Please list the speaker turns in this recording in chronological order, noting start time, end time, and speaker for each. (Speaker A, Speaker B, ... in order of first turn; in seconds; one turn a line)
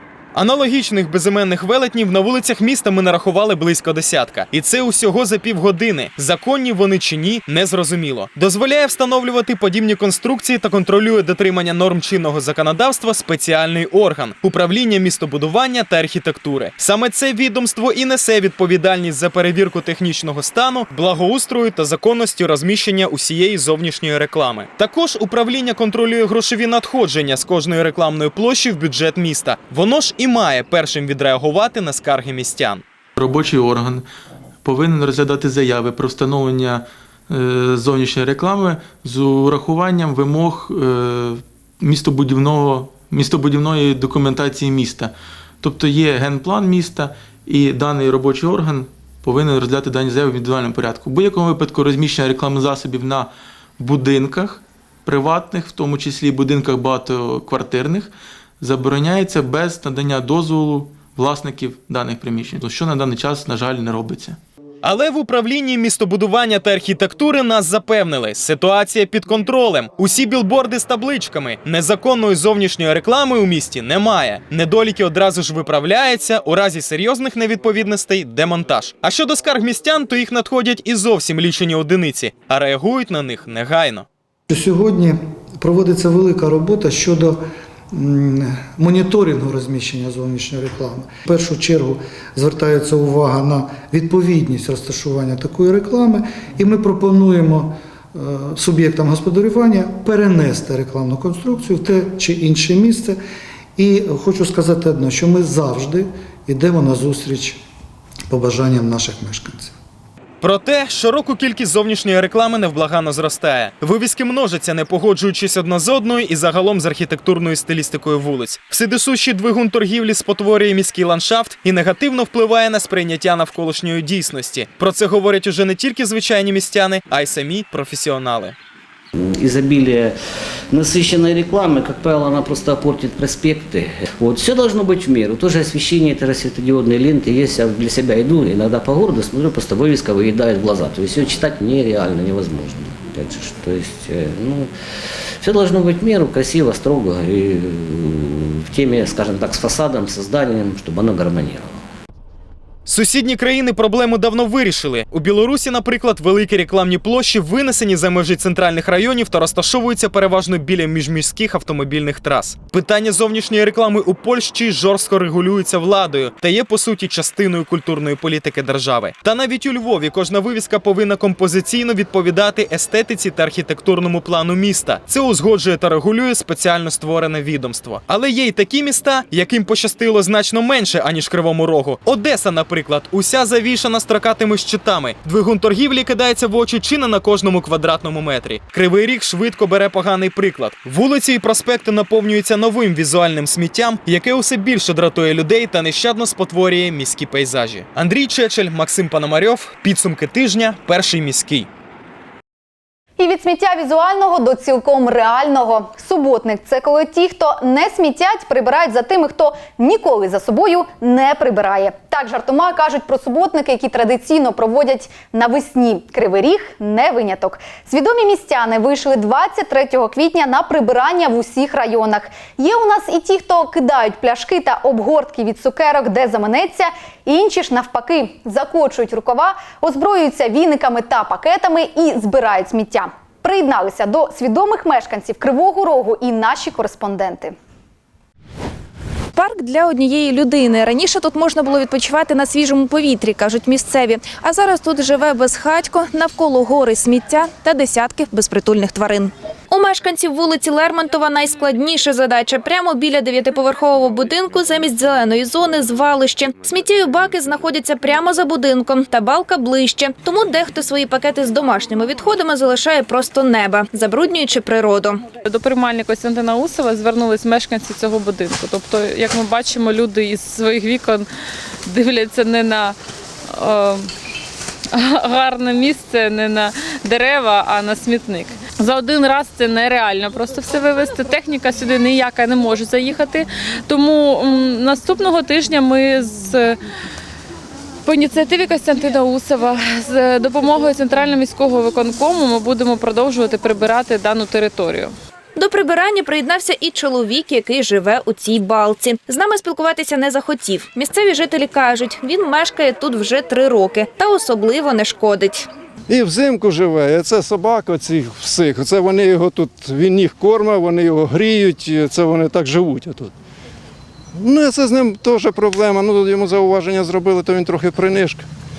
Speaker A: 0.3-32.8
Speaker B: 33.2-34.0
Speaker B: 34.6-64.4
Speaker A: 64.8-84.0
Speaker C: 84.5-103.2
Speaker C: 103.8-107.6
Speaker C: 108.3-109.7
Speaker A: 110.4-128.5
Speaker D: 129.3-130.1
Speaker D: 130.7-144.7
Speaker D: 145.4-151.8
Speaker A: 152.8-201.7
Speaker E: 203.2-237.5
Speaker F: 239.3-265.2
Speaker G: 265.4-271.3
Speaker G: 271.9-272.9
Speaker G: 273.5-274.1
Speaker G: 274.9-286.8
Speaker G: 288.0-295.1
Speaker F: 295.6-305.7
Speaker H: 306.1-313.3
Speaker H: 314.3-318.4